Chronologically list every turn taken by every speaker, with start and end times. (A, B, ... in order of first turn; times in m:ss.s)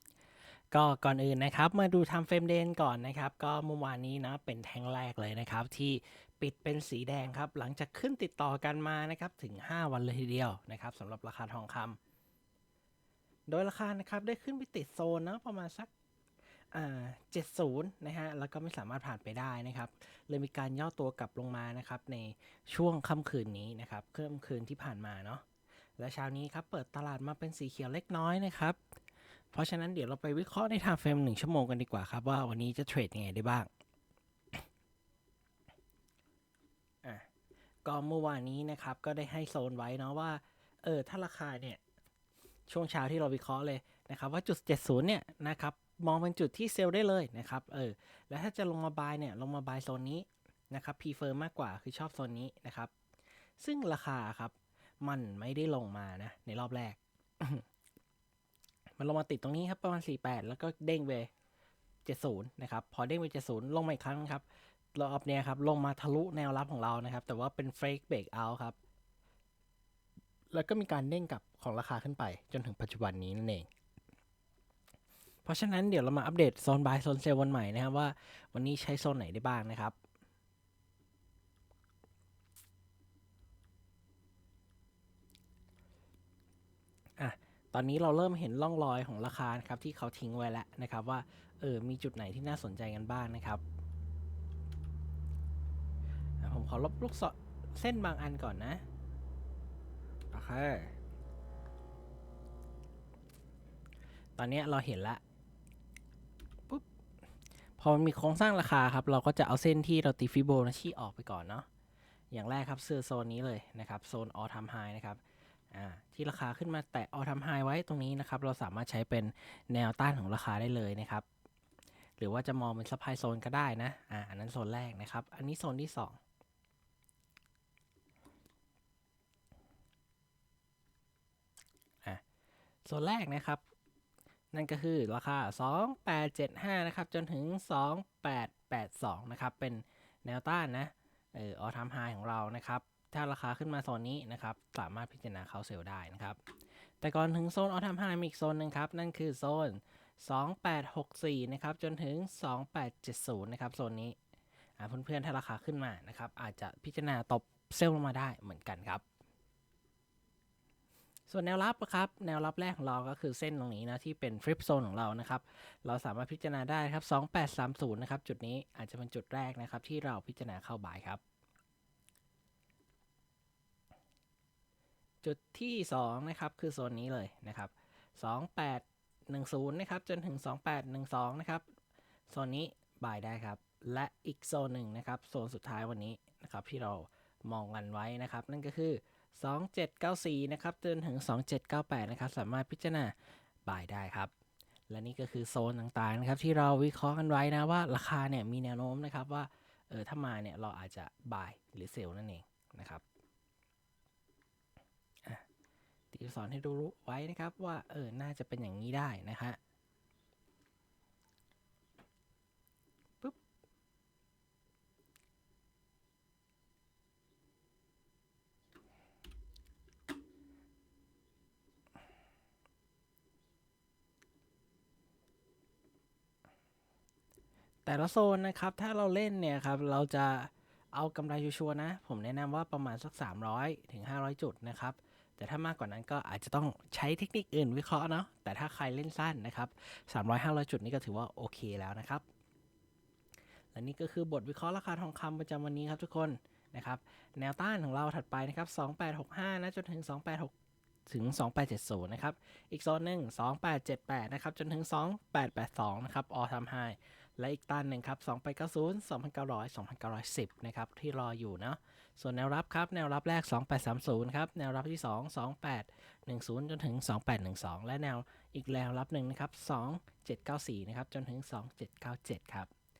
0:00.7-0:12.0 A
0:13.5-0:15.9 A
0:16.7-0:25.4 A
0:26.0-0:28.8 A
0:29.5-0:33.7 A
0:37.8-0:41.8 A
0:42.7-0:52.9 A
0:53.6-0:57.6 A
0:59.0-1:01.3 A
1:02.0-1:08.8 A
1:10.5-1:13.7 A
1:15.4-1:19.9 A
1:27.2-1:33.6 A
1:36.4-1:38.8 A
1:40.3-1:40.9 A
1:44.4-1:45.2 A
1:47.8-1:51.6 A
1:52.3-1:55.2 A
1:55.7-2:01.2 A
2:02.2-2:06.2 A
2:12.8-2:13.6 A
2:14.5-2:26.4 A
2:27.0-2:34.2 A
2:34.8-2:39.0 A
2:41.3-2:51.2 A
2:55.2-3:01.6 A
3:02.3-3:14.3 A
3:14.9-3:23.0 A
3:26.1-3:29.6 A
3:47.8-4:02.2 A
4:03.7-4:10.5 A
4:11.1-4:32.7 A